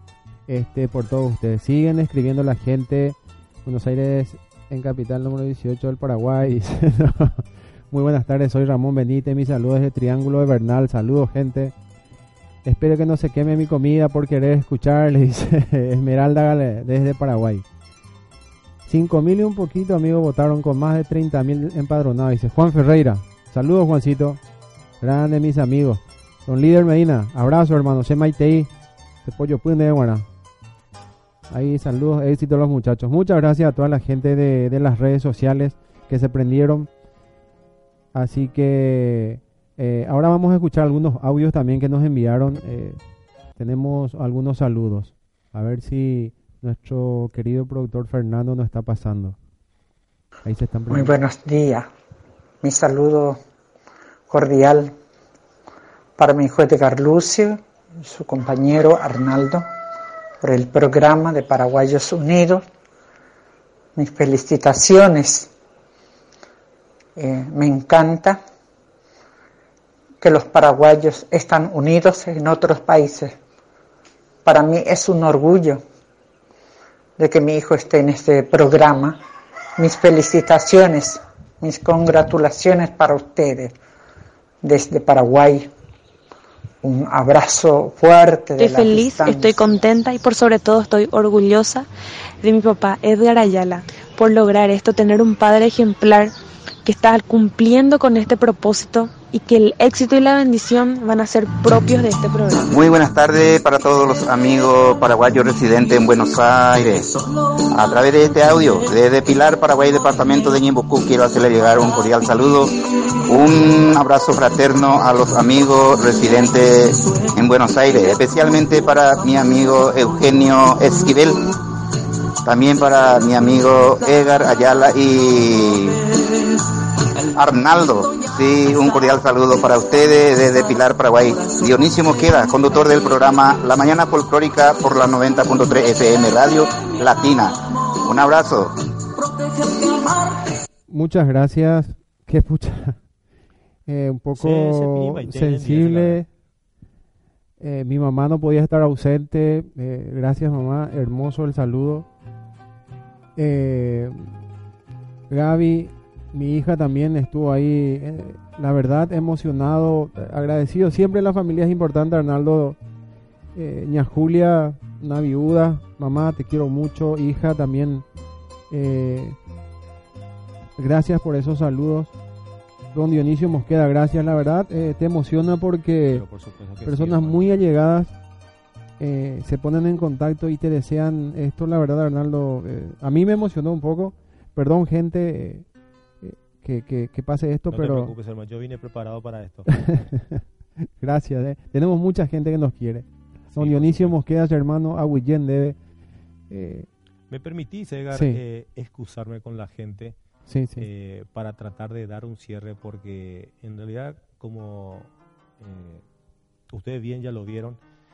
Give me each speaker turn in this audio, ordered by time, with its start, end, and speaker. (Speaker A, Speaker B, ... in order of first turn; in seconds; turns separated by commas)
Speaker A: 0.5-11.7, Speaker A: 12.6-17.6, Speaker A: 18.9-24.4, Speaker A: 25.0-28.7, Speaker A: 29.2-30.3, Speaker A: 31.5-36.9, Speaker A: 38.1-43.0, Speaker A: 43.5-49.4, Speaker A: 50.4-51.1, Speaker B: 50.9-51.9, Speaker B: 52.6-53.4, Speaker B: 54.3-54.9, Speaker B: 56.2-59.6, Speaker B: 60.4-62.6, Speaker B: 63.9-65.5, Speaker B: 67.2-68.4, Speaker B: 70.2-73.3, Speaker B: 74.4-75.8, Speaker B: 77.2-79.2, Speaker B: 79.8-83.7, Speaker B: 84.6-85.7, Speaker B: 86.8-89.5, Speaker C: 88.6-91.9, Speaker C: 92.4-96.3, Speaker C: 96.8-102.7, Speaker D: 102.7-121.5, Speaker D: 122.4-126.0, Speaker D: 127.3-138.7, Speaker A: 140.9-143.0, Speaker A: 143.9-146.3, Speaker E: 144.3-146.2, Speaker A: 147.6-152.1, Speaker A: 153.3-154.4, Speaker A: 155.3-162.8, Speaker A: 163.5-168.0, Speaker A: 168.7-169.4, Speaker A: 170.8-172.1, Speaker A: 172.9-176.2, Speaker E: 176.1-177.6, Speaker A: 176.8-178.1, Speaker A: 179.0-185.7, Speaker A: 186.2-188.1, Speaker E: 187.7-189.7, Speaker A: 189.7-195.8, Speaker E: 193.5-194.1, Speaker A: 196.5-196.9, Speaker E: 197.3-200.2, Speaker A: 198.1-198.4, Speaker A: 200.5-200.9, Speaker E: 200.8-206.0, Speaker E: 206.7-207.8